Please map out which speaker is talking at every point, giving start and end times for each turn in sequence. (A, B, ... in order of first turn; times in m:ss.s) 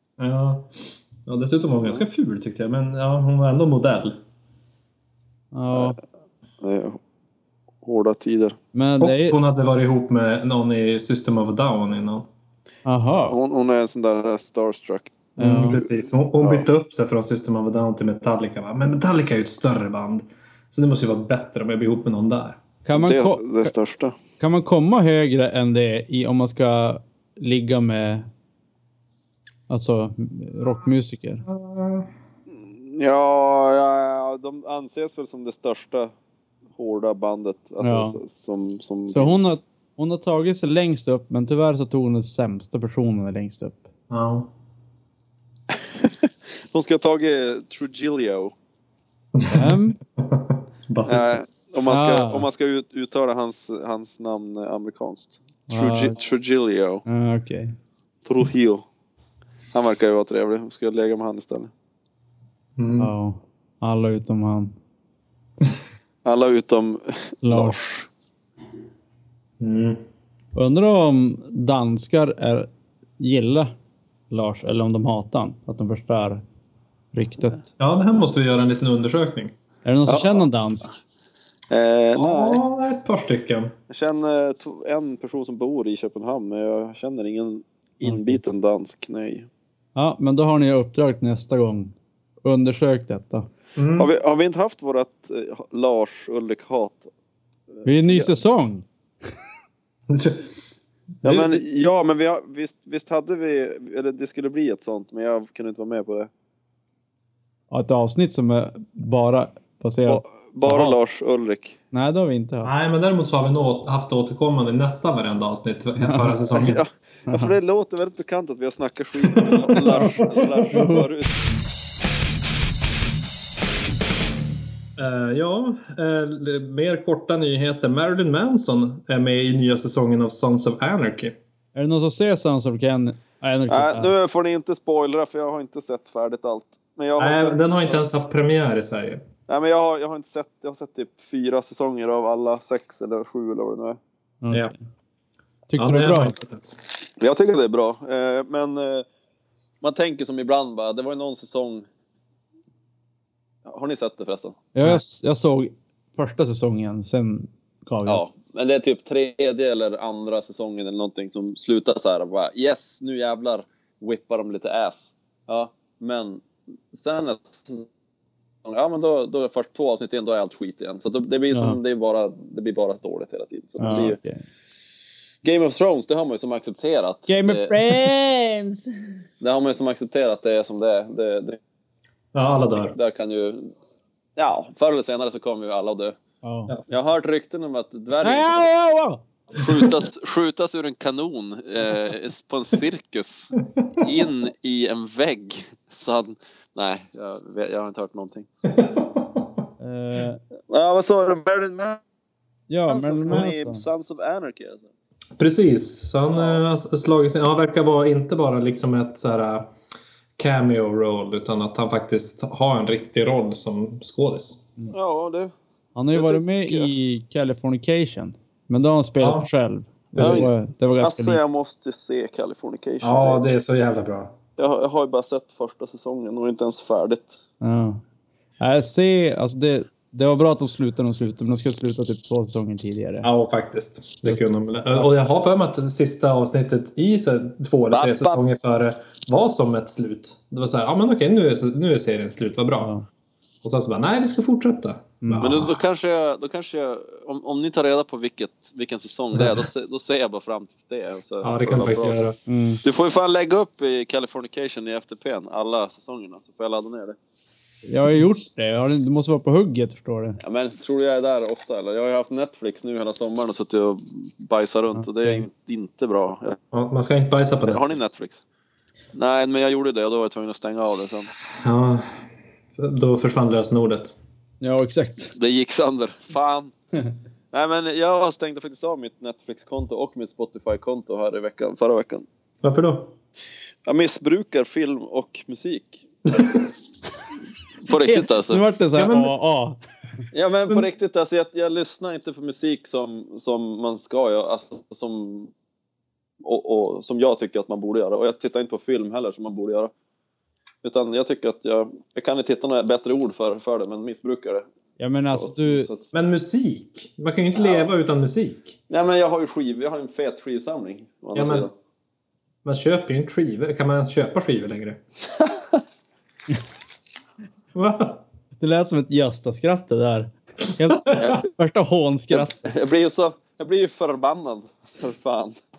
0:00.2-0:04.2 A
0:05.5-0:06.0 B
0:06.6-0:07.0 C
0:07.8-0:08.6 C
0:08.7-0:09.4 B
0:09.0-0:12.3 A
0:12.8-0:13.4 B
0:13.1-0:15.3 C
0:15.4-0:15.8 B
0:15.4-0:22.6 A
0:22.8-0:23.7 B
0:22.9-0:24.2 C
0:24.4-0:28.3 B
0:29.7-0:31.4 B
0:31.4-0:32.1 A
0:32.5-0:36.1 C
0:36.8-0:39.5 C
0:37.8-0:38.2 B
0:39.1-0:43.8 B
0:44.1-0:44.5 A
0:45.7-0:48.5 C
0:49.3-0:51.4 A
0:49.5-0:50.0 B
0:51.0-0:57.0 C
0:51.8-0:52.5 B
0:55.7-0:56.2 B
0:57.0-0:57.8 B
0:58.2-0:58.8 C
0:59.7-1:01.7 C
1:02.8-1:03.1 A
1:03.0-1:04.7 B
1:06.2-1:08.1 C
1:07.4-1:07.8 B
1:09.6-1:10.0 A
1:10.5-1:13.7 B
1:14.3-1:16.4 B
1:17.1-1:17.6 B
1:17.8-1:19.5 A
1:19.8-1:20.9 B
1:20.1-1:20.4 C
1:21.7-1:22.6 C
1:22.2-1:23.7 A
1:23.9-1:29.5 C
1:28.0-1:28.4 B
1:29.9-1:33.5 B
1:33.8-1:34.1 A
1:34.0-1:37.1 C
1:37.8-1:38.3 C
1:37.8-1:38.8 B
1:40.1-1:40.5 A
1:41.2-1:46.3 C
1:47.7-1:51.0 B
1:50.1-1:51.8 C
1:51.9-1:52.7 B
1:52.6-1:56.8 A
1:56.0-1:56.4 B
1:56.5-2:01.3 C
1:57.3-1:57.5 B
1:59.2-2:00.4 A
2:00.7-2:01.0 B
2:05.0-2:11.4 A
2:11.7-2:14.1 B
2:13.7-2:18.1 C
2:17.2-2:19.2 A
2:19.5-2:24.0 C
2:24.4-2:24.8 B
2:25.7-2:26.4 B
2:25.8-2:26.8 A
2:27.2-2:29.0 C
2:29.8-2:31.8 C
2:33.6-2:34.6 C
2:34.7-2:38.2 B
2:38.0-2:47.9 C
2:48.6-2:54.2 C
2:51.5-2:51.8 B
2:53.8-2:54.4 B
2:55.4-2:57.9 C
2:57.3-2:58.9 B
2:59.4-3:01.6 C
3:02.3-3:03.0 A
3:02.9-3:03.7 C
3:04.4-3:06.2 C
3:06.4-3:06.7 B
3:06.9-3:08.7 C
3:08.2-3:09.2 B
3:09.5-3:18.5 C
3:18.7-3:19.5 A
3:19.8-3:20.4 B
3:20.7-3:22.0 C
3:22.7-3:23.8 B
3:22.9-3:24.9 C
3:25.4-3:29.7 A
3:26.3-3:26.6 C
3:30.4-3:34.7 A
3:34.9-3:35.5 C
3:35.9-3:41.4 B
3:36.1-3:36.9 C
3:39.2-3:39.5 A
3:40.1-3:40.5 A
3:40.2-3:43.4 C
3:43.0-3:44.4 A
3:44.6-3:47.4 C
3:47.6-3:48.0 B
3:48.6-3:53.3 B
3:53.2-4:02.9 A
3:57.9-3:58.4 C
4:02.8-4:03.0 B
4:03.6-4:05.8 A
4:05.2-4:05.5 B
4:05.4-4:12.2 C
4:09.4-4:09.6 A
4:11.4-4:12.4 A
4:12.5-4:12.8 B
4:12.8-4:17.2 C
4:17.9-4:20.4 B
4:20.4-4:26.6 C
4:25.0-4:25.4 B
4:26.7-4:28.0 A
4:27.6-4:28.4 C
4:29.1-4:31.3 C
4:31.5-4:34.1 A
4:34.6-4:35.3 B
4:35.4-4:36.7 C
4:37.5-4:42.2 C
4:42.6-4:43.1 A
4:43.8-4:46.1 C
4:46.3-4:46.7 A
4:47.8-4:48.6 C
4:47.9-4:49.8 B
4:48.9-4:49.3 A
4:50.3-4:55.5 C
4:56.4-4:59.9 C
5:00.8-5:04.6 C
5:05.0-5:05.9 B
5:05.3-5:06.0 C
5:06.1-5:08.8 A
5:08.9-5:11.7 C
5:11.3-5:11.7 A
5:12.6-5:15.0 A
5:17.7-5:18.2 A
5:18.6-5:22.7 B
5:22.3-5:25.6 C